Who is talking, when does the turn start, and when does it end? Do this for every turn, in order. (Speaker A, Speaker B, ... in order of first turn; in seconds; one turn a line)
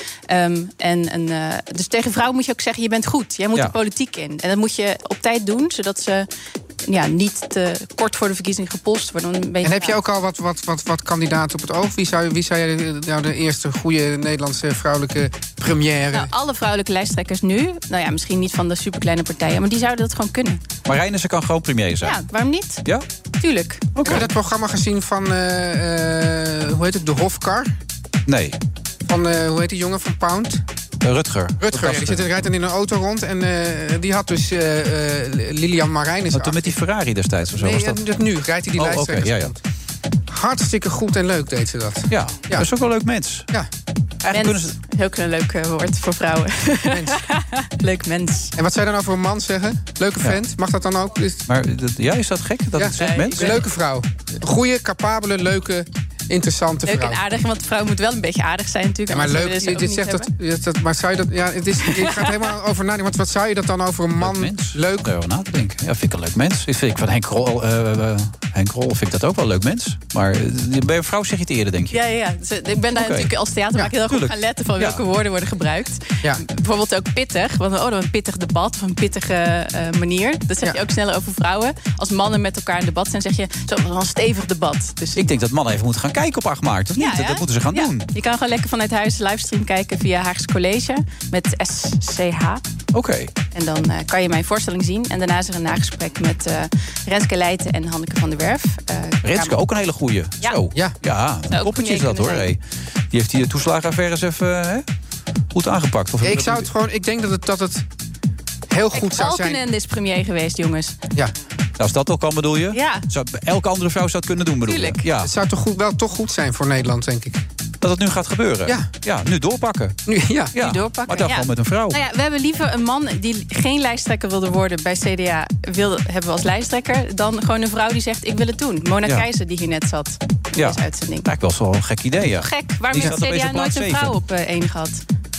Speaker A: 0.3-6.3
Speaker A: 6.8-10.0
Speaker B: 9.6-16.3
Speaker A: 16.1-20.6
Speaker C: 20.8-22.2
Speaker A: 22.0-22.8
Speaker A: 23.4-23.9
Speaker C: 23.9-24.3
Speaker B: 24.0-27.7
Speaker C: 28.3-28.6
Speaker B: 29.1-30.6
Speaker C: 31.0-32.2
Speaker B: 31.6-36.7
Speaker C: 36.3-38.0
Speaker B: 37.5-39.6
Speaker C: 38.8-39.5
Speaker B: 40.3-42.7
Speaker C: 42.1-43.5
Speaker C: 44.2-44.7
Speaker A: 44.3-48.5
Speaker B: 46.9-47.2
Speaker B: 48.5-51.4
Speaker C: 51.5-53.6
Speaker B: 52.8-57.2
Speaker A: 53.0-53.6
Speaker A: 56.9-60.3
Speaker B: 59.1-65.1
Speaker A: 61.8-62.3
Speaker C: 64.2-72.0
Speaker A: 71.9-85.3
Speaker C: 73.0-73.3
Speaker C: 74.1-75.0
Speaker C: 85.2-88.1
Speaker A: 87.0-92.6
Speaker C: 92.9-93.3
Speaker A: 93.5-99.5
Speaker C: 99.2-104.8
Speaker A: 101.5-102.4
Speaker C: 105.5-106.7
Speaker B: 106.2-107.8
Speaker B: 108.7-109.6
Speaker A: 108.9-111.0
Speaker C: 111.8-115.3
Speaker A: 112.7-113.0
Speaker A: 114.7-115.0
Speaker B: 115.2-117.4
Speaker C: 117.8-120.0
Speaker B: 120.0-120.5
Speaker C: 120.5-122.0
Speaker A: 120.6-131.3
Speaker C: 130.6-134.2
Speaker A: 132.4-135.0